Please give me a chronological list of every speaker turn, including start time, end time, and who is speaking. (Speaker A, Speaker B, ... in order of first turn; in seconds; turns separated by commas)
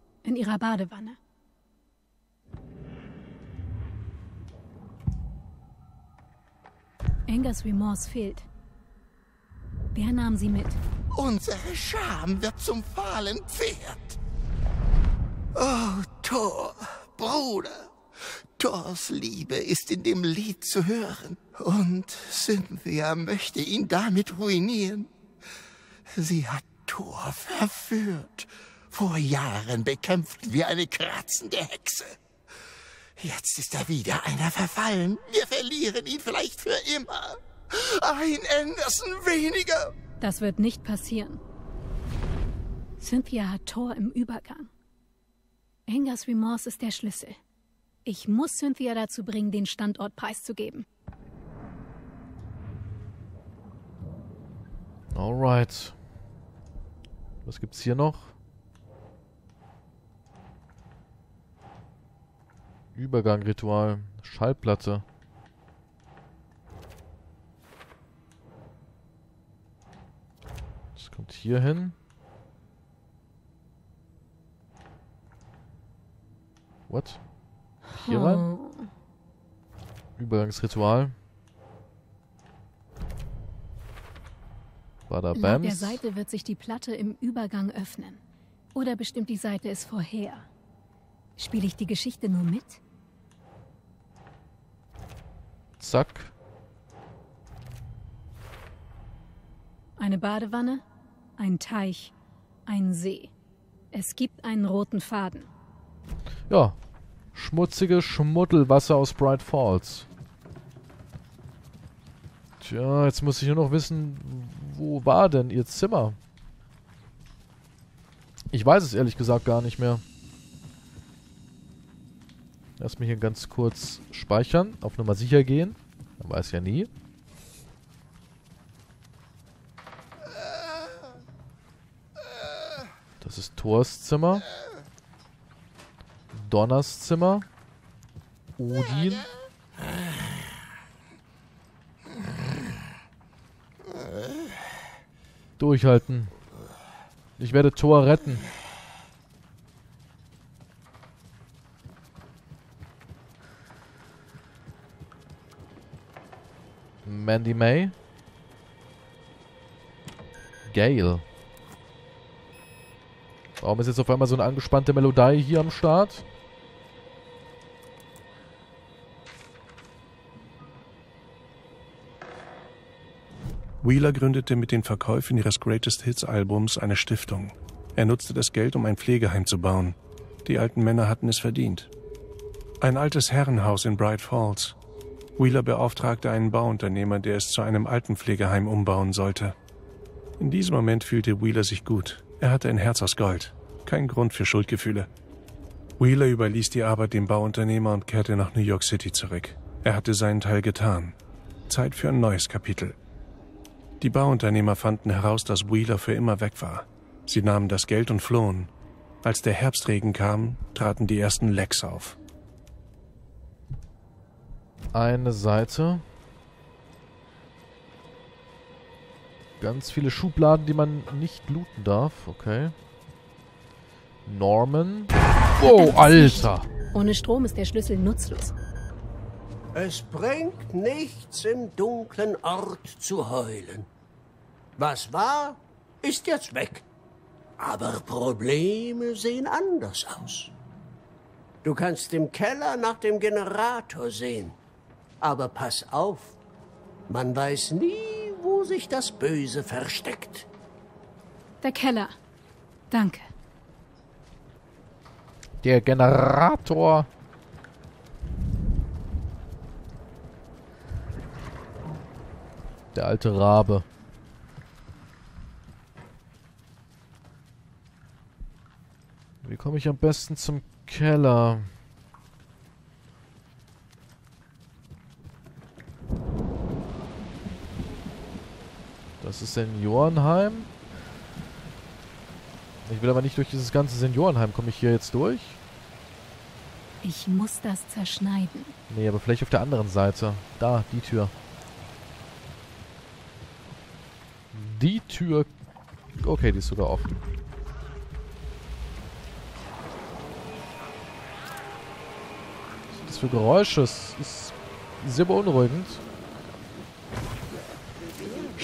Speaker A: 0.2-1.2, Speaker A: 7.3-8.5, Speaker A: 9.9-10.8, Speaker B: 11.1-14.2, Speaker B: 15.6-17.9, Speaker B: 18.6-25.1, Speaker B: 26.1-32.2, Speaker B: 33.2-39.9, Speaker A: 40.2-41.4, Speaker A: 43.0-44.7, Speaker A: 45.9-47.4, Speaker A: 48.0-50.9, Speaker C: 55.1-56.0, Speaker C: 57.5-58.3, Speaker C: 63.0-65.0, Speaker C: 71.0-72.0, Speaker C: 76.9-77.2, Speaker C: 77.9-78.5, Speaker A: 78.0-78.9, Speaker C: 80.2-81.2, Speaker C: 85.1-86.0, Speaker A: 85.3-88.2, Speaker A: 88.7-90.5, Speaker A: 91.4-92.8, Speaker C: 95.8-96.3, Speaker A: 100.0-100.8, Speaker A: 101.4-102.1, Speaker A: 102.7-103.3, Speaker A: 103.9-105.5, Speaker C: 106.5-106.8, Speaker C: 107.3-110.1, Speaker C: 112.6-116.2, Speaker C: 118.5-120.0, Speaker C: 122.8-126.9, Speaker C: 133.2-134.4, Speaker C: 136.3-137.5, Speaker C: 138.6-139.3, Speaker C: 145.6-146.3, Speaker C: 147.4-148.5, Speaker C: 157.1-157.9, Speaker C: 160.7-161.2, Speaker C: 163.6-166.3, Speaker D: 173.8-181.9, Speaker D: 182.8-184.8, Speaker D: 185.4-189.6, Speaker D: 190.4-195.1, Speaker D: 196.0-201.2, Speaker D: 201.7-203.0, Speaker D: 204.0-208.7, Speaker D: 209.2-212.2, Speaker C: 214.9-216.0, Speaker C: 219.6-222.8, Speaker C: 224.3-226.7, Speaker A: 225.6-228.5, Speaker E: 229.8-233.9, Speaker E: 234.8-236.9, Speaker E: 237.6-240.5, Speaker E: 241.6-244.6, Speaker E: 245.2-246.4, Speaker E: 247.1-250.5, Speaker A: 251.6-252.1, Speaker A: 252.9-253.3, Speaker C: 255.6-257.1, Speaker C: 262.9-263.9, Speaker C: 269.4-271.7, Speaker C: 279.2-280.7, Speaker C: 282.9-285.6, Speaker A: 287.0-288.7, Speaker C: 288.9-291.3, Speaker C: 294.5-295.5, Speaker C: 296.2-297.1, Speaker C: 302.9-306.0